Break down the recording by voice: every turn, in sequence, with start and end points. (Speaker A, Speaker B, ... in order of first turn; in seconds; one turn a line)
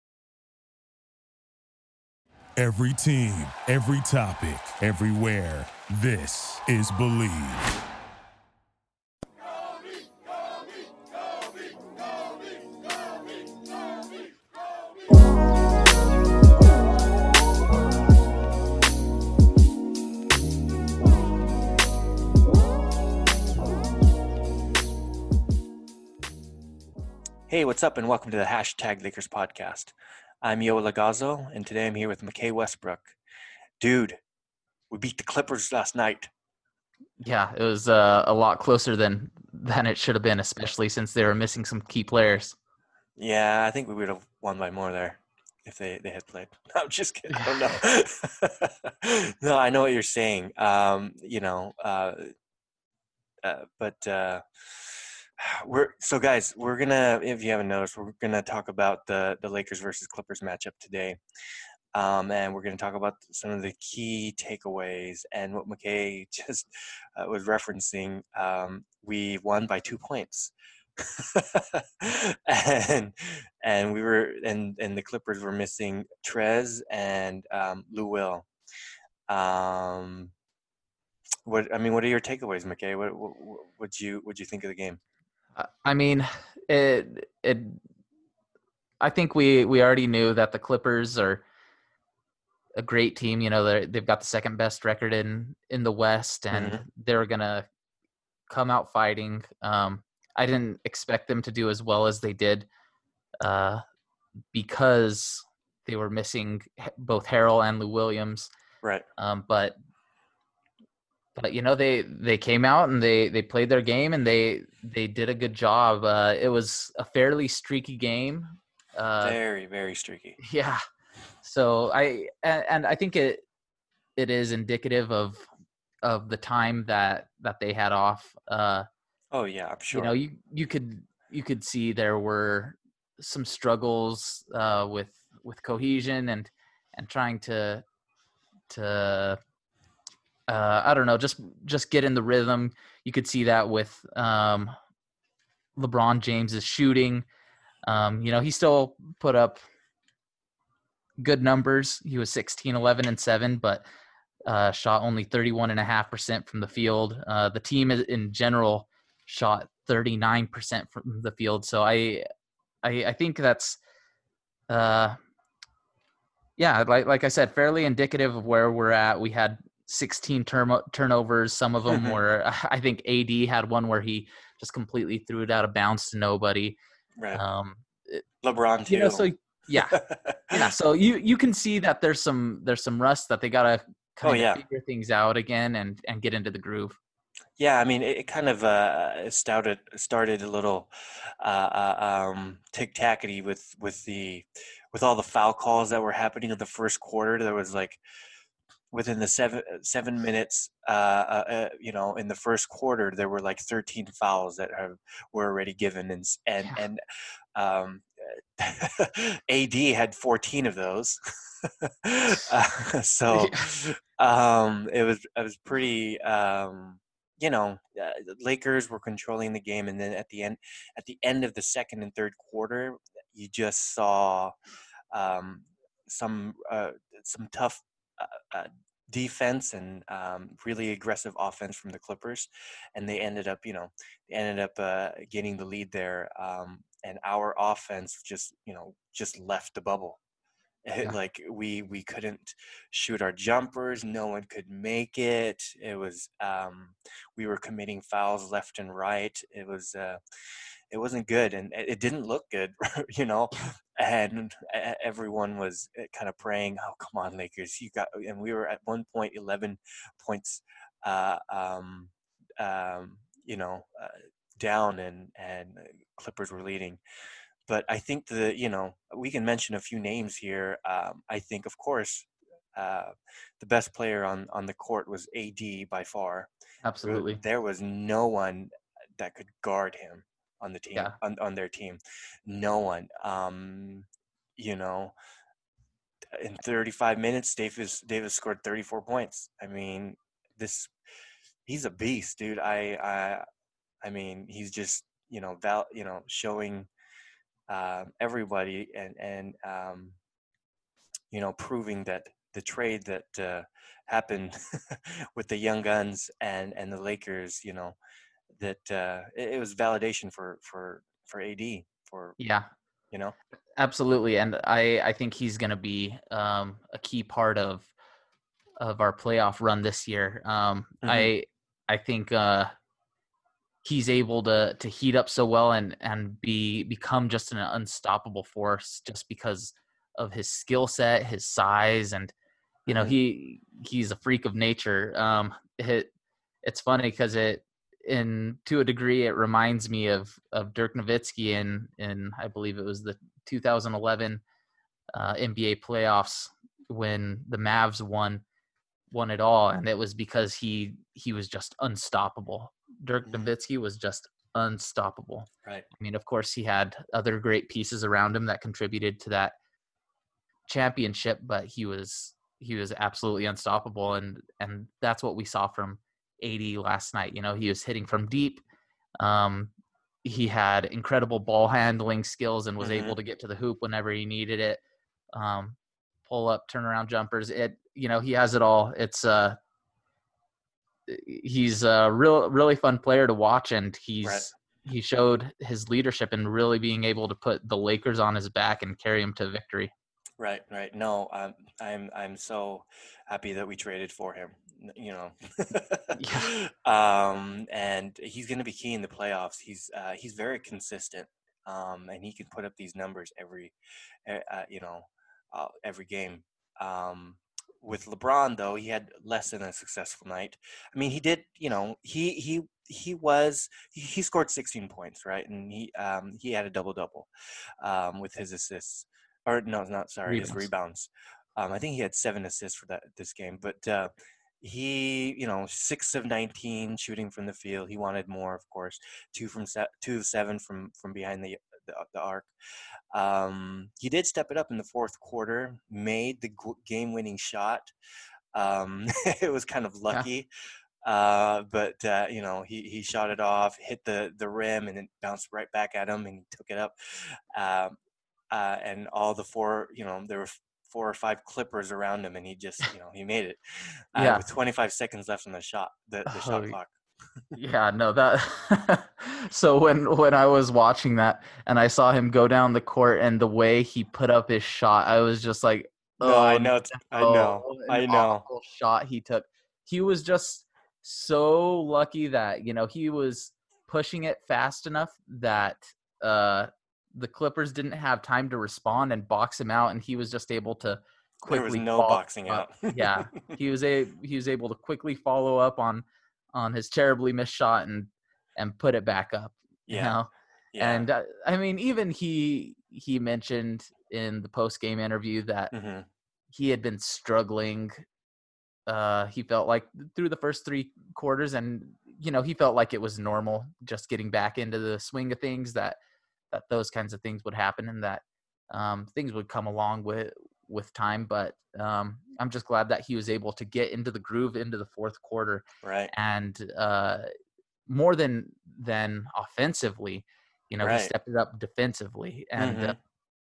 Speaker A: 2.6-7.7
Speaker B: 27.5-33.1
Speaker B: 33.8-34.2
Speaker B: 34.9-36.3
Speaker C: 37.2-42.5
Speaker B: 43.2-52.3
Speaker B: 53.4-61.2
Speaker B: 61.9-78.5
Speaker B: 79.3-80.3
Speaker B: 81.4-85.0
Speaker C: 85.5-87.8
Speaker C: 89.0-91.4
Speaker C: 92.8-97.7
Speaker B: 96.5-96.8
Speaker C: 98.5-102.7
Speaker C: 103.4-103.8
Speaker C: 104.5-108.5
Speaker C: 109.2-109.8
Speaker C: 111.3-119.4
Speaker B: 119.2-120.4
Speaker C: 120.4-120.8
Speaker C: 121.4-123.4
Speaker C: 124.2-125.5
Speaker C: 126.0-128.8
Speaker B: 129.3-130.1
Speaker C: 129.9-137.8
Speaker C: 138.7-139.4
Speaker C: 140.5-144.7
Speaker C: 145.8-147.2
Speaker C: 147.8-149.6
Speaker C: 151.2-153.8
Speaker C: 154.4-162.2
Speaker C: 162.8-163.8
Speaker C: 164.7-165.2
Speaker C: 166.6-176.8
Speaker B: 171.9-172.2
Speaker B: 177.2-177.4
Speaker C: 177.3-178.2
Speaker B: 178.4-180.7
Speaker C: 178.9-180.0
Speaker C: 180.5-187.0
Speaker B: 184.2-184.6
Speaker B: 187.6-190.9
Speaker B: 191.4-198.0
Speaker B: 198.9-207.0
Speaker B: 207.5-224.5
Speaker C: 213.3-213.8
Speaker B: 225.1-240.2
Speaker B: 240.8-250.2
Speaker B: 250.9-267.0
Speaker B: 267.7-276.5
Speaker C: 276.8-277.4
Speaker B: 277.0-284.1
Speaker B: 284.6-285.1
Speaker B: 286.3-290.9
Speaker B: 291.6-293.4
Speaker B: 294.0-296.9
Speaker B: 297.7-300.2
Speaker B: 301.3-308.0
Speaker B: 308.5-312.4
Speaker C: 312.4-312.7
Speaker C: 313.8-317.9
Speaker C: 318.8-322.7
Speaker B: 321.0-321.3
Speaker C: 323.8-332.3
Speaker B: 332.9-333.1
Speaker C: 332.9-336.1
Speaker C: 336.6-344.4
Speaker C: 345.1-348.4
Speaker C: 349.1-359.6
Speaker B: 353.2-353.5
Speaker C: 360.7-368.6
Speaker C: 369.2-369.7
Speaker C: 370.2-374.8
Speaker B: 372.8-373.1
Speaker C: 375.3-379.6
Speaker C: 381.1-389.9
Speaker B: 384.2-384.5
Speaker B: 390.4-403.7
Speaker C: 396.1-396.5
Speaker B: 404.2-417.3
Speaker B: 417.8-432.5
Speaker C: 420.2-420.7
Speaker B: 433.1-437.9
Speaker B: 438.5-440.5
Speaker B: 441.0-446.9
Speaker B: 447.5-448.0
Speaker B: 448.5-456.9
Speaker C: 454.1-454.4
Speaker C: 456.2-456.8
Speaker C: 457.6-495.7
Speaker B: 466.2-468.4
Speaker B: 481.4-483.5
Speaker B: 489.9-490.1
Speaker B: 490.7-491.1
Speaker B: 495.7-496.1
Speaker C: 496.5-498.0
Speaker C: 498.9-506.0
Speaker C: 506.5-517.2
Speaker B: 515.8-516.1
Speaker C: 517.9-523.0
Speaker B: 520.8-521.1
Speaker B: 522.6-523.0